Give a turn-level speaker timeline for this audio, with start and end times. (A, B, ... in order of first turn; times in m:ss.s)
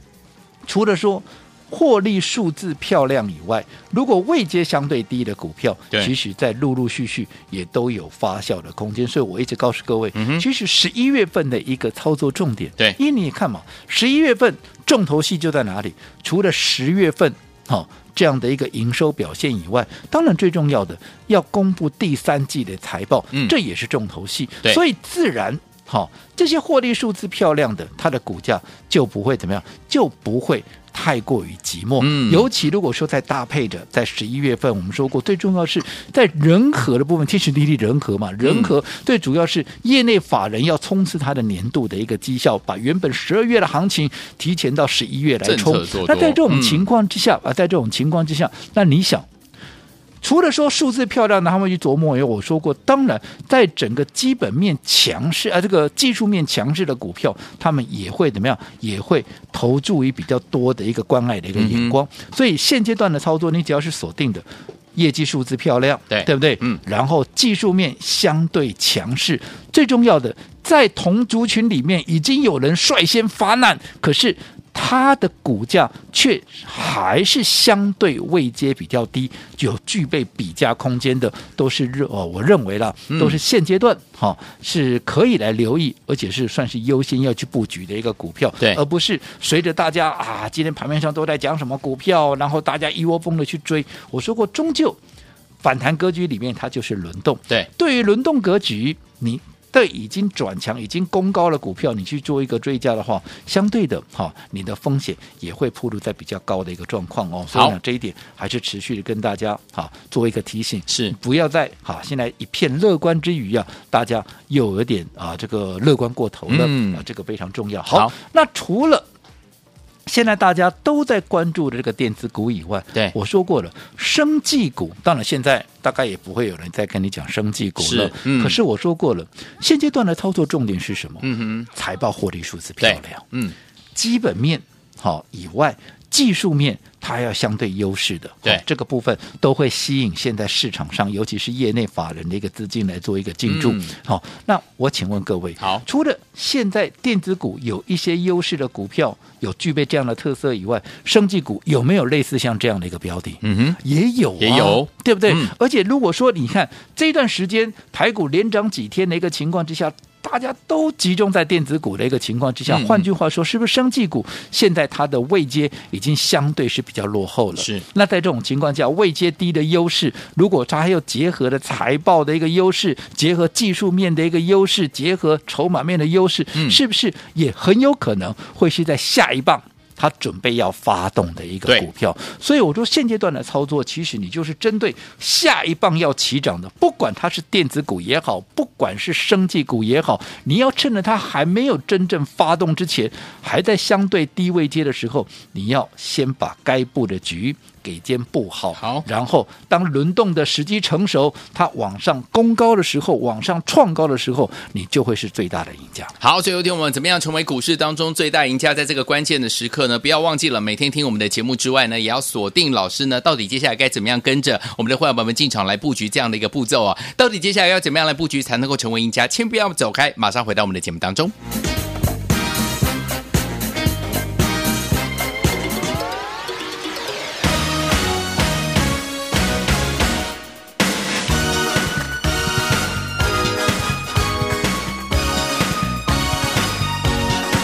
0:00.6-0:49.3 A
0:10.1-0:10.4 B
0:32.0-0:32.4 B
0:38.4-0:38.7 B
0:45.4-0:46.8 B
0:50.2-1:35.0 A
1:01.6-1:01.9 B
1:06.1-1:06.8 B
1:23.1-1:23.4 B
1:35.6-1:59.0 A
1:50.9-1:51.1 B
1:56.5-1:57.0 B
2:00.0-2:13.2 A
2:07.8-2:08.6 B
2:11.2-2:11.7 B
2:12.8-2:13.5 B
2:13.9-3:26.1 A
2:23.4-2:23.9 B
2:33.4-2:33.8 B
2:34.4-2:35.5 B
2:42.7-2:43.1 B
2:47.6-2:47.8 B
2:56.5-2:56.8 B
3:18.8-3:19.0 B
3:26.2-3:41.3 B